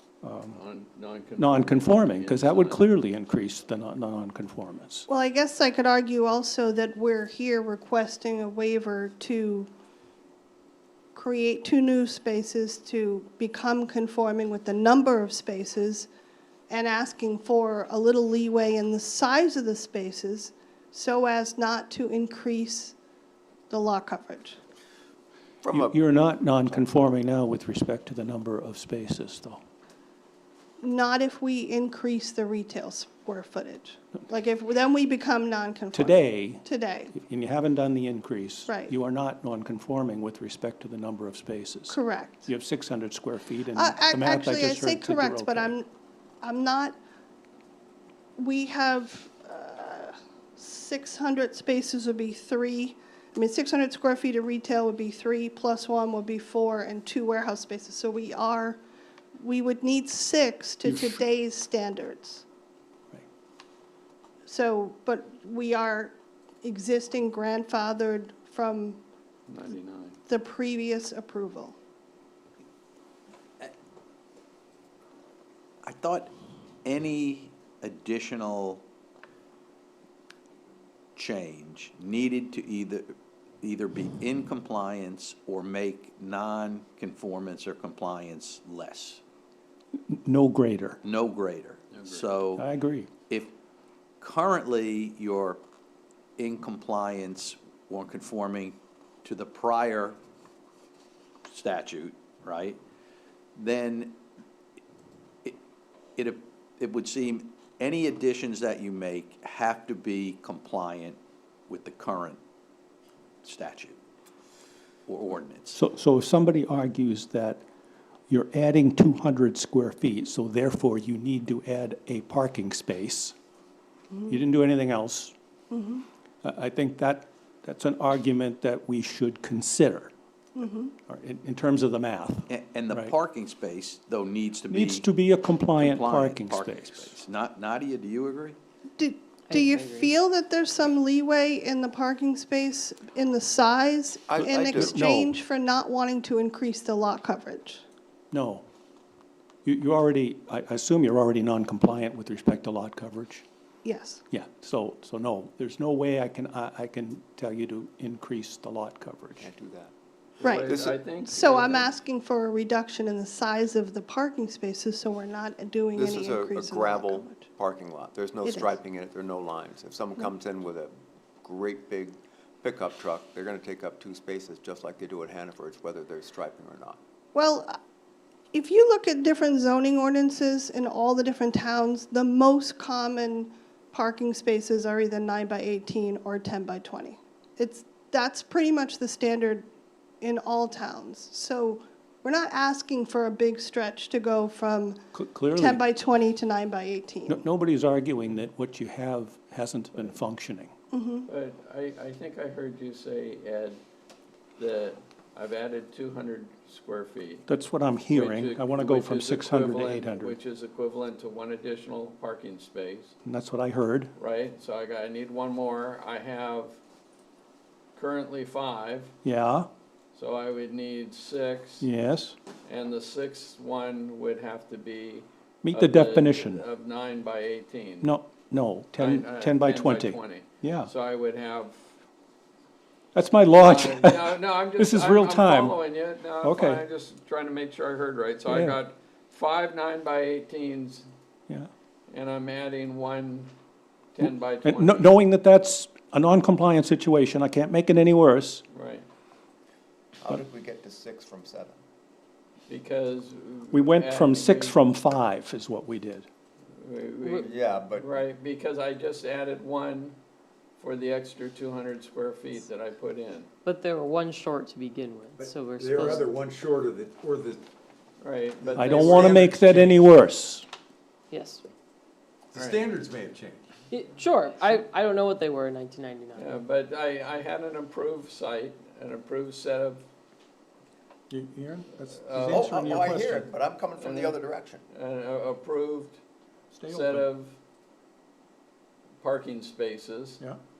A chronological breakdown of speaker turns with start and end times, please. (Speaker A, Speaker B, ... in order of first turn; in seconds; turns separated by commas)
Speaker A: 0.2-0.6, Speaker B: 0.5-2.8, Speaker A: 1.4-5.1, Speaker C: 5.1-9.7, Speaker C: 11.1-16.1, Speaker C: 16.7-22.9, Speaker C: 23.7-24.6, Speaker D: 25.6-26.1, Speaker A: 25.7-29.6, Speaker C: 30.8-37.1, Speaker A: 35.9-45.7, Speaker C: 38.7-38.9, Speaker C: 41.9-42.5, Speaker C: 43.7-45.9, Speaker C: 46.4-47.0, Speaker C: 48.4-58.8, Speaker C: 59.4-62.4, Speaker A: 60.9-61.2, Speaker C: 64.5-69.0, Speaker B: 69.5-70.2, Speaker C: 70.3-71.8, Speaker E: 75.8-76.3, Speaker E: 76.8-78.8, Speaker E: 81.2-89.2, Speaker A: 90.1-91.0, Speaker E: 91.0-92.7, Speaker B: 91.9-92.3, Speaker A: 92.6-93.1, Speaker E: 94.2-95.6, Speaker E: 96.4-100.2, Speaker E: 101.5-102.8, Speaker E: 103.6-104.2, Speaker E: 106.2-111.2, Speaker E: 111.7-112.4, Speaker E: 113.4-114.0, Speaker E: 115.1-115.8, Speaker A: 115.7-117.6, Speaker A: 118.3-123.3, Speaker A: 124.3-125.3, Speaker C: 125.7-126.0, Speaker A: 126.4-130.1, Speaker C: 130.6-130.9, Speaker A: 131.1-133.1, Speaker E: 132.5-135.1, Speaker A: 134.7-137.1, Speaker E: 135.8-138.6, Speaker C: 139.0-147.8, Speaker F: 139.5-140.1, Speaker D: 144.3-145.0, Speaker A: 144.4-145.3, Speaker A: 148.3-148.7, Speaker A: 149.6-153.4, Speaker C: 153.8-154.2, Speaker A: 154.3-159.5, Speaker D: 159.4-159.9, Speaker B: 160.4-161.9, Speaker C: 160.4-167.5, Speaker D: 165.9-177.0, Speaker C: 168.4-168.8, Speaker C: 177.3-177.8, Speaker C: 178.5-189.7, Speaker C: 190.2-197.4, Speaker A: 195.1-195.8, Speaker A: 197.3-200.7, Speaker C: 200.9-201.3, Speaker B: 201.2-203.8, Speaker B: 204.6-207.4, Speaker A: 207.5-210.4, Speaker B: 208.1-213.1, Speaker A: 213.2-214.1, Speaker B: 214.2-216.8, Speaker B: 217.9-219.1, Speaker A: 219.2-219.7, Speaker B: 220.1-221.9, Speaker A: 221.8-222.3, Speaker B: 222.7-228.1, Speaker A: 225.6-226.6, Speaker A: 228.0-230.9, Speaker B: 229.0-231.8, Speaker A: 233.1-235.8, Speaker B: 233.5-241.1, Speaker A: 236.4-236.8, Speaker A: 238.5-238.8, Speaker B: 242.1-243.5, Speaker B: 244.1-245.1, Speaker A: 244.2-248.6, Speaker B: 248.7-249.1, Speaker D: 250.2-251.8, Speaker B: 252.7-254.8, Speaker A: 253.7-256.3, Speaker B: 256.8-260.2, Speaker F: 257.2-257.5, Speaker D: 257.4-258.1, Speaker B: 260.8-263.5, Speaker F: 263.6-266.3, Speaker G: 265.3-267.6, Speaker B: 268.2-269.5, Speaker G: 268.7-270.0, Speaker A: 268.8-270.7, Speaker F: 271.3-271.7, Speaker G: 272.5-273.7, Speaker B: 272.6-272.9, Speaker F: 273.9-276.6, Speaker B: 276.4-280.0, Speaker A: 281.3-283.4, Speaker B: 282.0-283.2, Speaker G: 282.3-283.0, Speaker D: 282.5-284.9, Speaker B: 284.0-286.2, Speaker A: 286.8-287.2, Speaker B: 286.9-287.6, Speaker B: 289.2-290.4